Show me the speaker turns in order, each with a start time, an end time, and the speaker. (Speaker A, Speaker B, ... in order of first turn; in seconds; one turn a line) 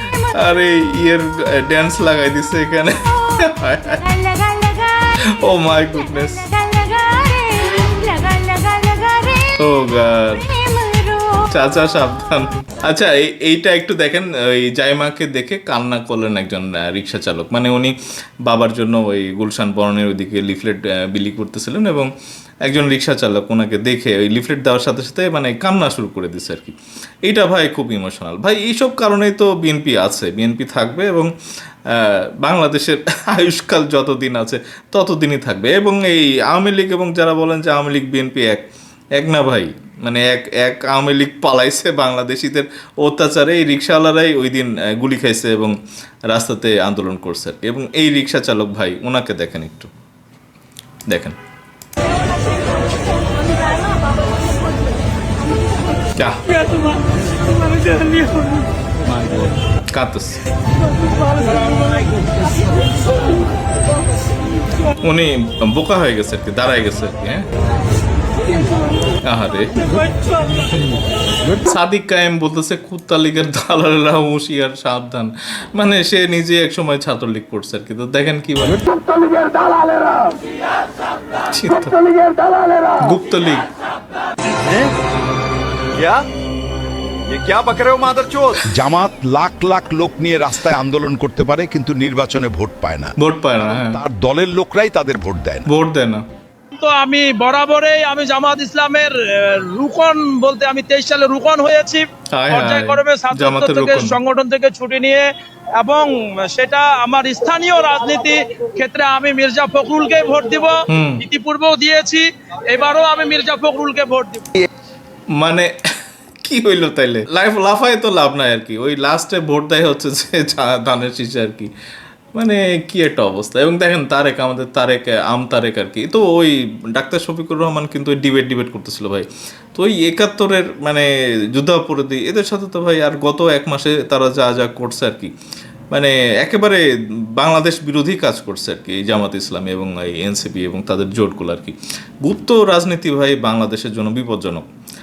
Speaker A: 0.4-4.0
Speaker A: 5.4-6.5
Speaker B: 7.1-9.2
Speaker A: 9.6-10.5
Speaker A: 11.5-22.1
Speaker A: 22.6-31.3
Speaker A: 31.9-38.7
Speaker A: 39.2-45.8
Speaker A: 46.3-49.9
Speaker A: 51.1-51.4
Speaker A: 56.2-56.5
Speaker A: 59.9-60.4
Speaker A: 65.0-67.5
Speaker A: 69.2-69.8
Speaker A: 71.6-78.8
Speaker A: 81.5-82.0
Speaker A: 83.0-83.6
Speaker C: 86.0-86.2
Speaker C: 87.3-95.7
Speaker A: 93.2-94.0
Speaker A: 95.7-96.2
Speaker D: 96.7-114.5
Speaker A: 102.3-104.2
Speaker A: 110.9-111.2
Speaker A: 115.3-115.7
Speaker A: 116.4-121.7
Speaker A: 122.3-135.3
Speaker A: 135.9-136.8
Speaker A: 137.4-144.6